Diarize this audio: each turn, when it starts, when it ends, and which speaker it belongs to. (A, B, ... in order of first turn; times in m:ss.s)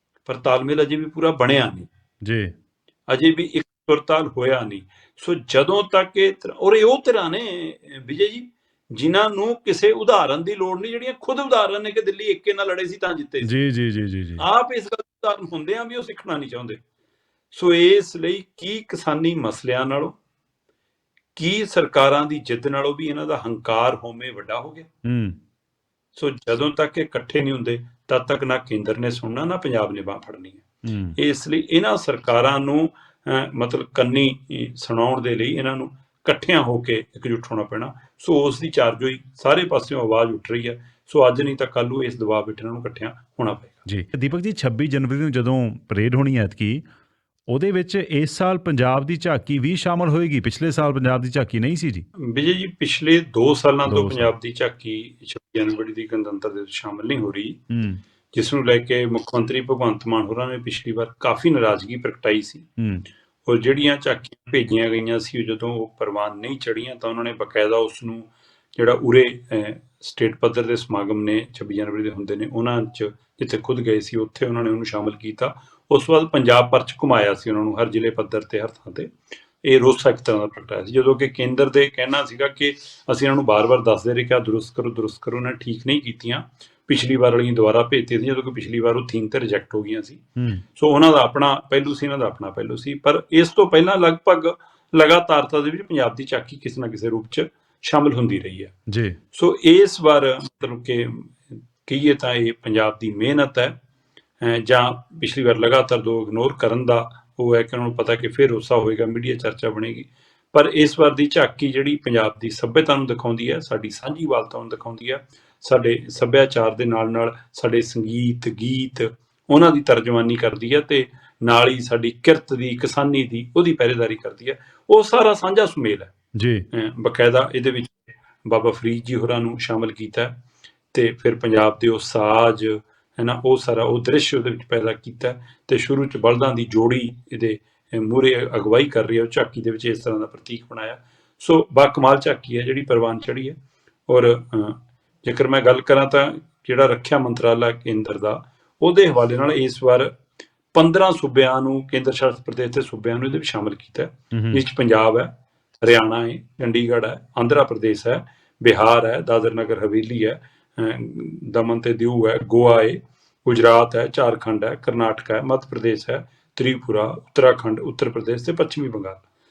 0:00.2-0:01.9 A
0:02.2-0:02.5 B
0:03.1-0:13.5 A
0:13.4-0:14.4 B
0:14.4-0:16.8 A
0:17.5-0:20.2 A
0:21.4-0:24.9 A
0:25.0-0:25.4 B
0:26.1-0:30.6 A
0:30.8-0:31.2 B
0:31.2-0:43.8 A
0:43.8-0:46.9 B
0:47.5-0:52.0 B
0:52.2-0:57.6 A
0:53.8-0:54.3 B
0:57.7-0:58.0 B
0:58.3-1:02.7 A
1:02.8-1:03.1 B
1:03.4-1:30.2 A
1:30.4-1:30.6 B
1:30.7-1:38.7 A
1:38.9-1:39.2 B
1:39.3-1:43.8 A
1:44.4-2:06.1 A
2:06.3-2:06.6 B
2:06.7-2:10.4 A
2:10.9-2:23.6 A
2:24.1-2:30.2 A
2:30.7-2:49.2 A
2:34.3-2:34.6 B